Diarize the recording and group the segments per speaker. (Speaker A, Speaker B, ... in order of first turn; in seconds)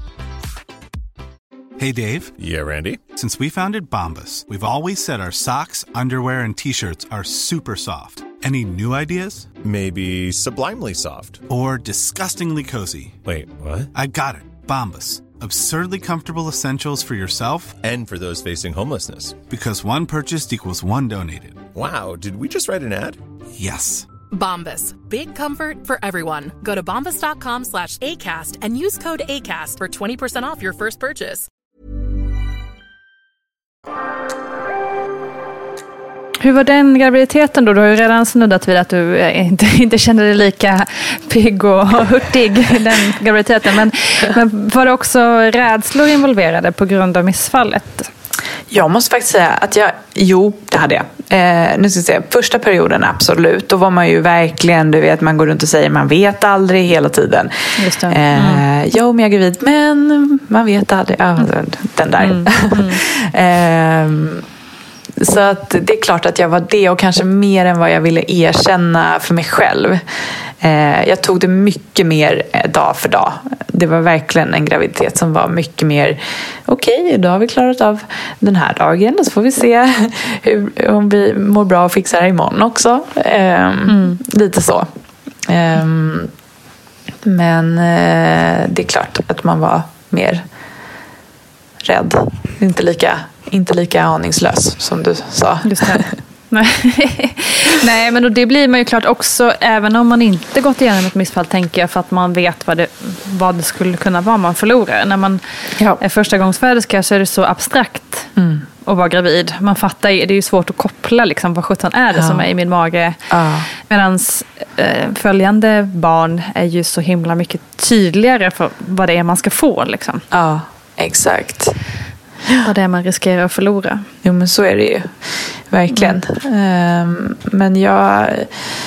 Speaker A: 1.8-2.3, 3.1-9.5, 11.5-13.2, 13.9-17.8, 19.5-21.6, 23.6-24.1
Speaker B: 2.4-3.0, 9.6-11.4, 13.2-13.9, 17.8-19.4, 21.7-23.2
Speaker C: 24.3-31.5
Speaker D: 36.4-48.1, 57.8-58.6, 62.2-63.0, 83.9-84.2, 95.6-105.4, 106.0-108.3, 108.8-113.2, 113.8-120.2, 122.6-124.0, 125.9-126.2
Speaker E: 48.7-64.4, 65.2-70.0, 70.6-84.9, 85.5-86.3, 87.2-90.4, 91.8-96.1, 108.3-108.7, 112.1-112.5, 113.3-113.7, 120.3-121.8, 124.2-125.1, 125.7-128.5